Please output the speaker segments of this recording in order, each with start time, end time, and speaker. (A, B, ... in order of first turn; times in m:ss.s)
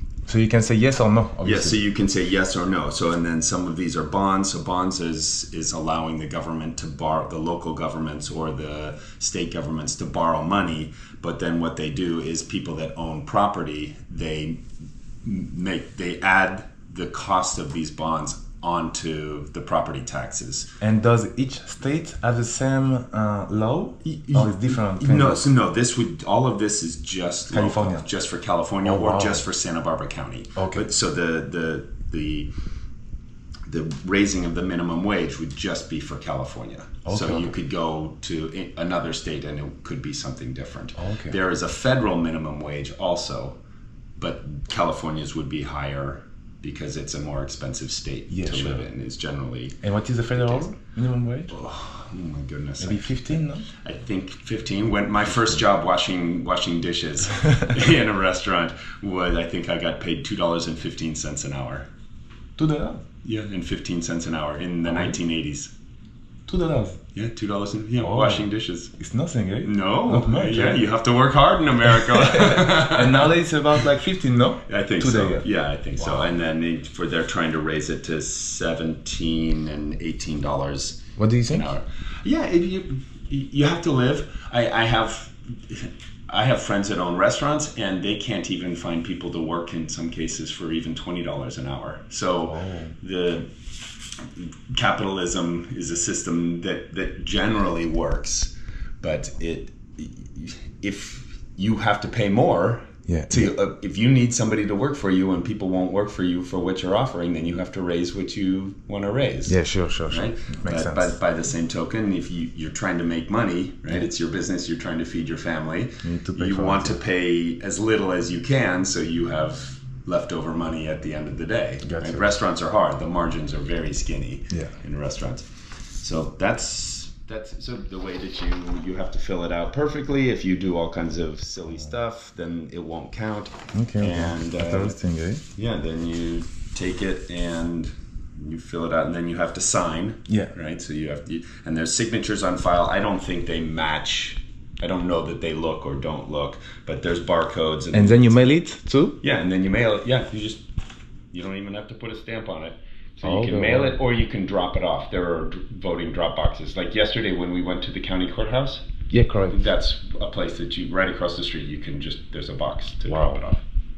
0:00.3-0:01.8 A
0:01.4-0:14.7 B
0:15.2-0:20.7 B
0:20.8-0:25.5 A
0:24.0-0:32.5 B
0:27.5-0:28.1 A
0:28.8-0:29.5 A
0:30.6-0:30.9 A
0:33.7-0:43.6 B
0:37.1-0:37.5 A
0:40.9-0:41.4 A
0:44.2-0:49.8 B
0:48.3-0:48.8 A
0:49.8-0:51.5 A
0:50.4-0:50.7 B
0:51.5-1:01.9 B
0:52.8-0:53.6 A
0:55.3-0:55.6 A
1:02.6-1:03.0 A
1:03.2-1:05.7 B
1:04.9-1:05.2 A
1:06.5-1:07.0 A
1:07.1-1:08.9 B
1:08.0-1:10.9 A
1:09.6-1:13.4 B
1:11.9-1:15.4 A
1:14.7-1:33.5 B
1:16.0-1:16.3 A
1:21.2-1:21.7 A
1:32.4-1:33.0 A
1:34.2-1:49.6 B
1:43.1-1:43.5 A
1:49.5-1:51.2 A
1:50.1-2:15.0 B
1:56.0-1:57.0 A
2:01.8-2:02.4 A
2:04.5-2:04.8 A
2:13.7-2:15.4 A
2:15.5-2:28.4 B
2:20.3-2:20.5 A
2:27.9-2:29.2 A
2:29.2-2:30.6 B
2:31.3-2:38.8 B
2:33.2-2:34.0 A
2:39.1-2:39.7 A
2:39.5-2:43.6 B
2:43.1-2:43.4 A